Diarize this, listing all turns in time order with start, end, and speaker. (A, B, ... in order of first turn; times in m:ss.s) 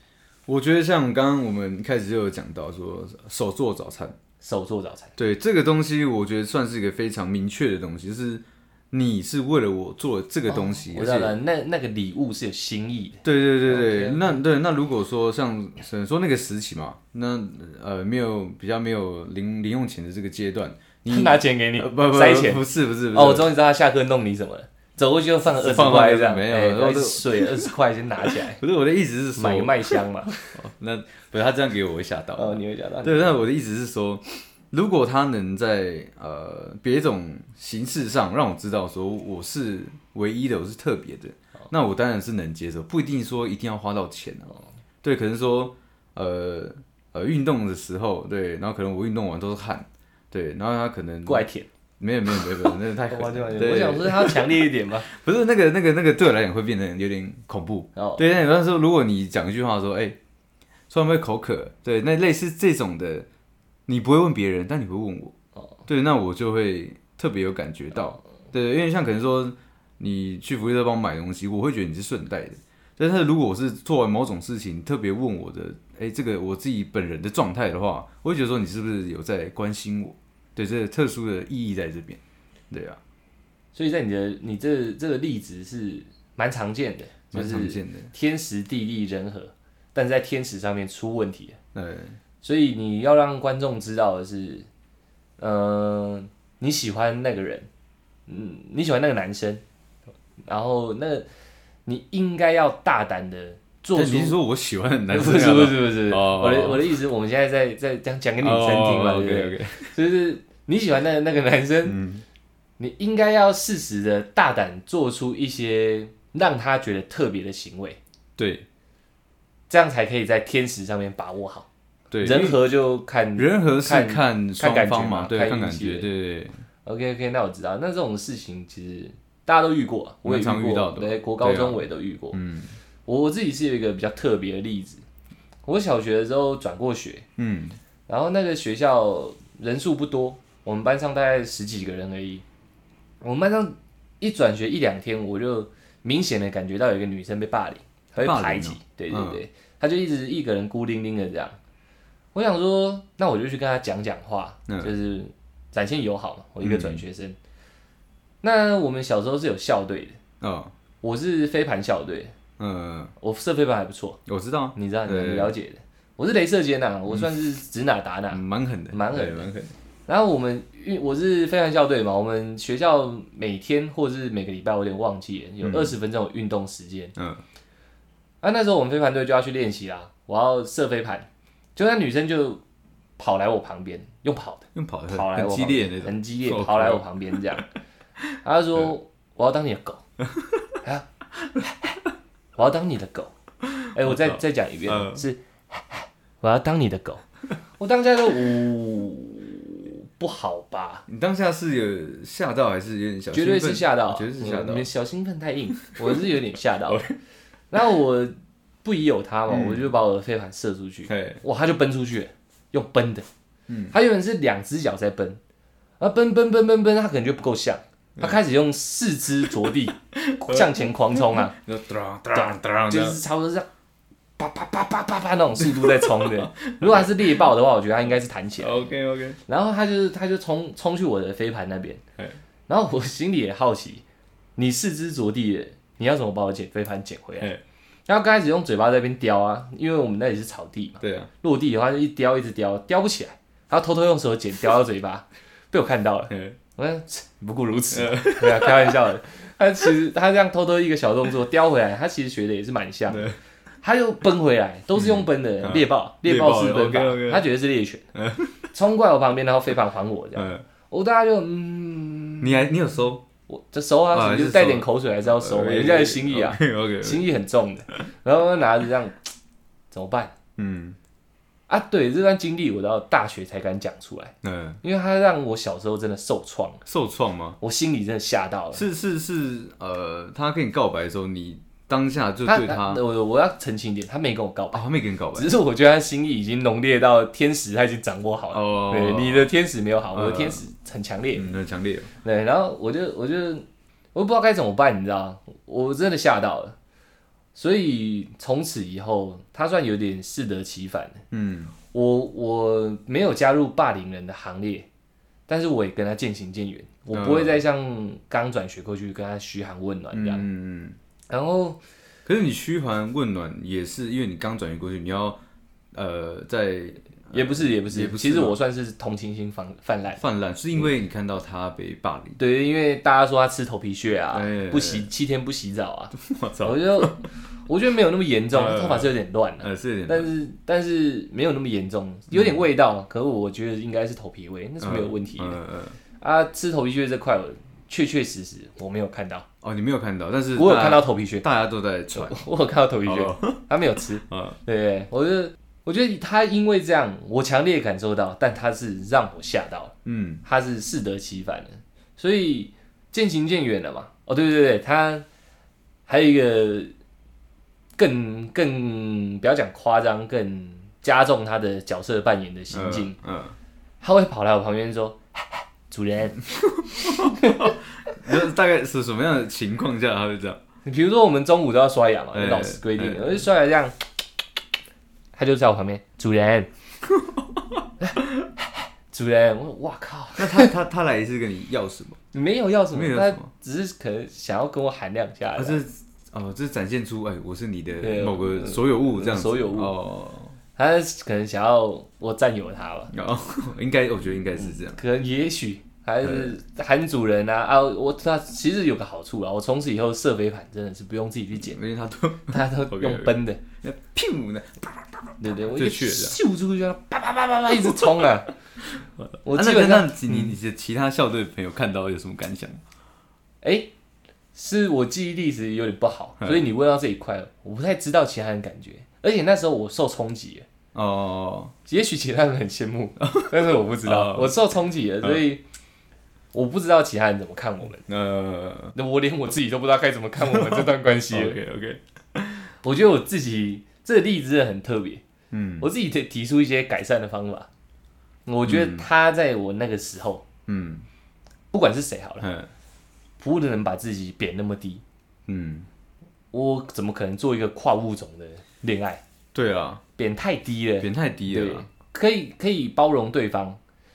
0:00.5-0:04.2 A
0:04.4-0:05.1 B
0:05.2-0:11.4 A
0:10.5-0:14.4 B
0:13.2-0:23.5 A
0:21.1-0:28.6 B
0:25.4-0:51.4 A
0:29.4-0:30.6 B
0:32.4-0:33.3 B
0:51.2-0:51.7 B
0:52.0-1:00.2 A
0:53.1-0:55.1 B
0:58.0-0:58.2 B
1:00.9-1:03.3 A
1:03.9-1:05.3 A
1:05.8-1:22.2 A
1:22.7-1:23.0 A
1:23.7-1:31.6 B
1:27.3-1:28.1 A
1:31.7-1:32.2 A
1:32.4-1:34.7 B
1:35.4-1:37.7 B
1:38.3-1:39.6 B
1:40.4-1:41.3 B
1:41.8-1:44.4 B
1:43.9-1:47.0 A
1:45.1-1:52.0 B
1:48.4-1:50.0 A
1:51.8-1:52.2 A
1:52.8-1:58.0 B
1:58.4-1:58.6 A
1:59.7-2:01.7 B
2:02.1-2:02.6 A
2:02.2-2:06.1 B
2:03.3-2:06.5 A
2:06.8-2:12.4 B
2:10.2-2:12.8 A
2:13.0-2:15.0 B
2:15.6-2:17.2 B
2:17.4-2:17.8 A
2:18.1-2:22.4 B
2:23.2-2:31.6 B
2:28.2-2:29.4 A
2:32.3-2:37.4 B
2:34.7-2:34.9 A
2:36.6-2:37.0 A
2:38.4-2:40.2 B
2:40.4-2:40.7 A
2:41.0-2:42.3 B
2:42.6-2:43.1 A
2:43.2-2:44.2 B
2:44.2-2:45.5 A
2:44.7-2:49.5 B
2:48.3-2:49.7 A
2:50.1-2:57.1 B
2:55.6-2:55.9 A
2:57.2-2:57.4 A
2:58.4-3:02.6 B
3:03.2-3:07.7 B
3:04.7-3:07.6 A
3:08.4-3:10.0 B
3:12.6-3:13.3 B
3:13.8-3:15.2 A
3:13.9-3:17.2 B
3:17.8-3:21.0 B
3:21.1-3:24.9 A
3:23.3-3:27.1 B
3:26.8-3:27.2 A
3:27.7-3:28.3 B
3:28.8-3:33.3 B
3:29.5-3:29.9 A
3:31.1-3:31.4 A
3:33.7-3:34.0 A
3:33.9-3:35.4 B
3:36.0-3:41.6 B
3:39.7-3:43.2 A
3:42.3-3:43.7 B
3:44.4-3:48.8 B
3:45.6-3:47.3 A
3:48.6-3:49.4 A
3:49.5-3:52.0 B
3:52.7-3:54.0 B
3:54.6-3:57.5 B
3:58.1-4:13.3 B
4:01.0-4:01.3 A
4:06.3-4:06.6 A
4:07.9-4:09.1 A
4:13.1-4:13.4 A
4:13.8-4:18.0 B
4:15.0-4:17.5 A
4:18.1-4:18.7 A
4:18.7-4:22.6 B
4:20.4-4:20.6 A
4:22.4-4:23.2 A
4:23.5-4:29.3 B
4:24.1-4:27.3 A
4:29.9-4:30.3 B
4:30.6-4:31.0 A
4:31.7-4:36.8 B
4:34.4-4:34.8 A
4:36.8-4:37.6 A
4:37.6-4:38.8 B
4:38.7-4:43.0 A
4:42.4-4:51.6 B
4:44.7-4:45.6 A
4:48.5-4:49.5 A
4:50.1-4:50.6 A
4:51.3-4:52.1 A
4:52.2-4:56.8 B
4:57.5-5:01.2 B
5:01.3-5:01.7 A
5:01.9-5:04.9 B
5:05.5-5:10.4 B
5:07.1-5:07.6 A
5:10.1-5:11.0 A
5:11.3-5:11.8 B
5:12.2-5:15.4 A
5:15.9-5:18.6 A
5:17.3-5:20.2 B
5:20.2-5:22.4 A
5:22.4-5:35.6 B
5:24.3-5:25.1 A
5:26.1-5:27.3 A
5:28.5-5:30.3 A
5:32.3-5:32.6 A
5:34.8-5:36.0 A
5:36.2-5:39.4 B
5:39.6-5:42.4 A
5:40.6-5:41.4 B
5:42.1-5:55.2 B
5:43.0-5:43.7 A
5:44.3-5:44.6 A
5:50.0-5:50.4 A
5:56.1-5:56.9 B
5:58.0-6:03.2 B
6:02.7-6:03.6 A
6:04.0-6:06.4 B
6:06.8-6:10.6 A
6:07.2-6:07.7 B
6:10.8-6:14.0 B
6:12.3-6:13.4 A
6:15.3-6:16.7 B
6:17.1-6:17.8 A
6:18.0-6:20.7 B
6:20.4-6:22.2 A
6:22.3-6:25.8 B
6:22.9-6:23.5 A
6:25.6-6:30.6 A
6:28.0-6:30.0 B
6:30.8-6:33.1 B
6:33.1-6:35.0 A
6:34.6-6:41.8 B
6:36.2-6:36.6 A
6:41.6-6:46.4 A
6:42.5-6:43.6 B
6:45.4-6:48.6 B
6:47.8-6:48.1 A
6:49.0-6:52.8 A
6:49.4-6:50.5 B
6:53.6-6:53.9 B
6:54.5-7:00.6 B
7:00.9-7:01.7 A
7:01.8-7:05.6 B
7:03.2-7:04.6 A
7:06.5-7:08.0 B
7:08.1-7:09.0 A
7:08.9-7:11.6 B
7:10.4-7:12.7 A
7:12.8-7:15.2 B
7:15.5-7:15.9 A
7:15.8-7:17.7 B
7:18.4-7:20.4 B
7:18.6-7:19.1 A
7:20.7-7:21.1 A
7:21.7-7:22.5 B
7:22.4-7:22.7 A
7:23.4-7:25.0 B
7:25.5-7:25.9 A
7:26.5-7:29.2 B
7:29.5-7:30.0 A
7:30.2-7:33.8 B
7:31.0-7:31.9 A